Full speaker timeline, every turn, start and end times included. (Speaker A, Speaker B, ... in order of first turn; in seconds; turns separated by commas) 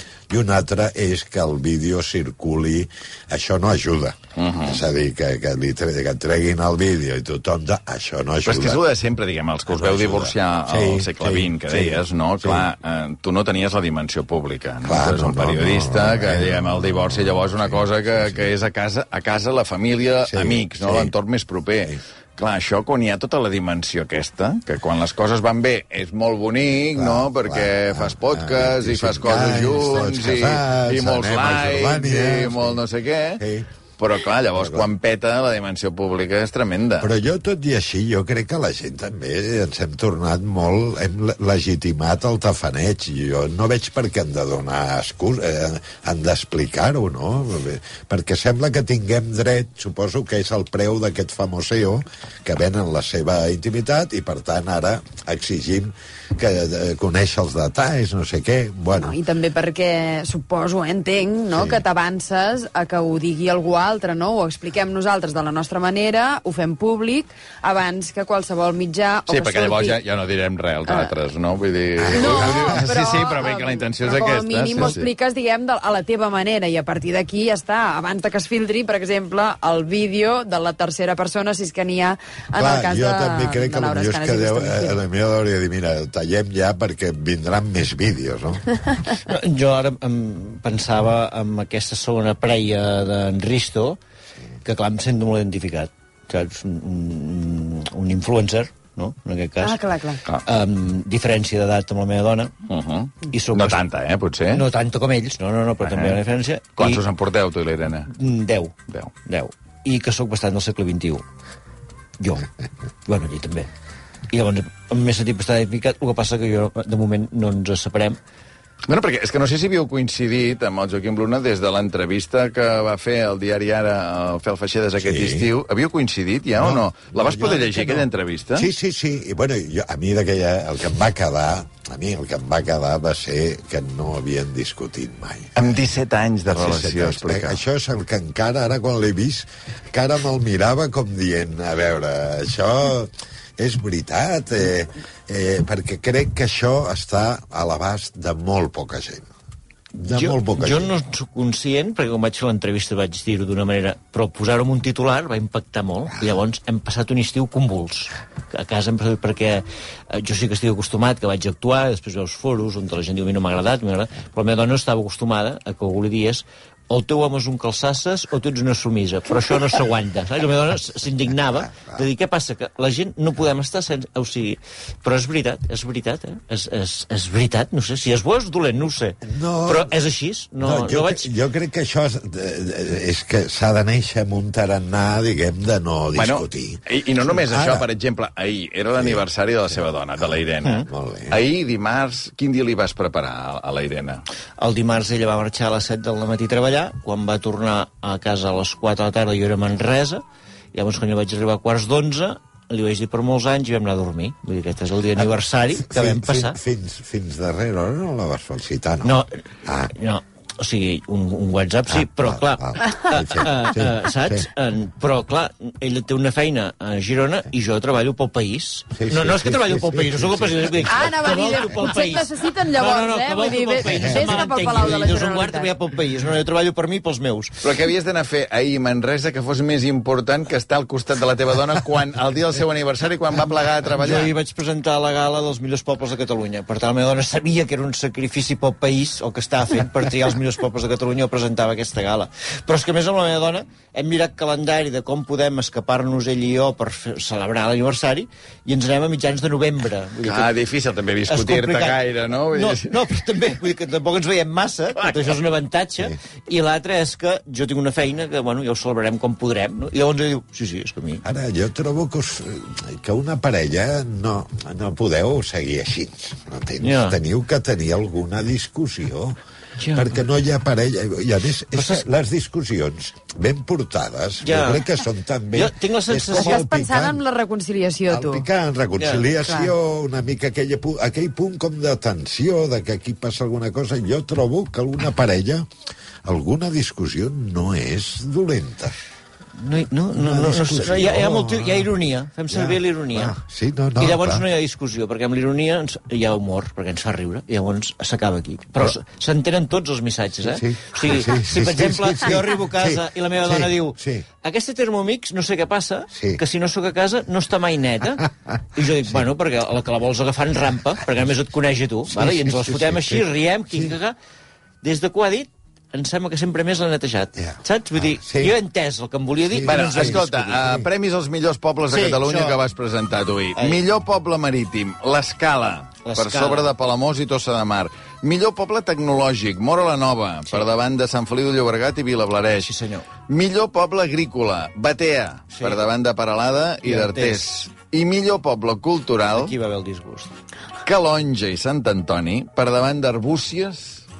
Speaker A: 0.3-8.8, Speaker B: 4.4-4.8, Speaker B: 8.4-33.4, Speaker A: 9.7-12.7, Speaker A: 14.8-18.5, Speaker A: 20.2-21.1, Speaker A: 26.9-32.8, Speaker A: 33.4-33.7, Speaker B: 34.0-37.1, Speaker A: 34.6-34.9, Speaker A: 37.0-59.2, Speaker C: 59.0-70.0, Speaker A: 61.5-61.8, Speaker B: 69.3-75.1, Speaker C: 70.9-71.1, Speaker A: 72.0-72.9, Speaker C: 72.1-85.0, Speaker A: 82.5-88.8, Speaker D: 89.1-94.0, Speaker D: 94.6-102.5, Speaker C: 99.6-100.2, Speaker B: 102.7-104.6, Speaker D: 103.3-103.8, Speaker D: 104.5-107.0, Speaker B: 105.8-106.2, Speaker B: 106.8-108.1, Speaker D: 108.1-111.2, Speaker D: 112.2-112.5, Speaker D: 113.1-113.7, Speaker D: 114.3-118.2, Speaker B: 118.9-128.7, Speaker A: 125.0-125.5, Speaker A: 126.6-135.6, Speaker B: 135.6-137.6, Speaker A: 136.5-149.3, Speaker A: 150.0-150.9, Speaker D: 150.1-181.3, Speaker A: 171.7-172.0, Speaker A: 179.2-180.0, Speaker A: 180.6-187.9, Speaker B: 186.2-194.2, Speaker A: 189.0-190.3, Speaker A: 190.9-191.4, Speaker D: 194.6-200.2, Speaker D: 200.7-206.6, Speaker A: 205.8-209.9, Speaker D: 209.0-227.6, Speaker A: 211.9-214.5, Speaker A: 218.9-221.2, Speaker C: 220.9-225.7, Speaker A: 223.8-224.4, Speaker B: 227.6-234.3, Speaker D: 233.9-250.5, Speaker B: 250.2-253.0, Speaker D: 251.3-261.2, Speaker B: 255.0-255.4, Speaker A: 261.2-269.4, Speaker D: 266.8-267.2, Speaker D: 269.8-270.1, Speaker A: 269.9-277.2, Speaker D: 271.7-272.1, Speaker D: 274.4-274.9, Speaker D: 275.5-276.6, Speaker C: 276.3-278.5, Speaker A: 278.1-285.6, Speaker D: 279.0-279.3, Speaker C: 279.4-279.7, Speaker A: 286.2-288.9, Speaker D: 289.6-293.4, Speaker A: 290.1-291.9, Speaker A: 292.5-294.5, Speaker D: 294.0-314.2, Speaker A: 300.5-304.3, Speaker A: 306.1-306.4, Speaker A: 312.1-314.0, Speaker D: 314.8-320.2, Speaker A: 317.4-318.5, Speaker A: 319.4-320.9, Speaker B: 319.6-332.7, Speaker D: 321.9-322.6, Speaker D: 323.6-323.8, Speaker D: 326.0-326.7, Speaker D: 332.5-333.1, Speaker B: 333.3-339.5, Speaker D: 335.5-335.8, Speaker D: 336.8-337.5, Speaker D: 339.3-340.3, Speaker B: 340.8-344.1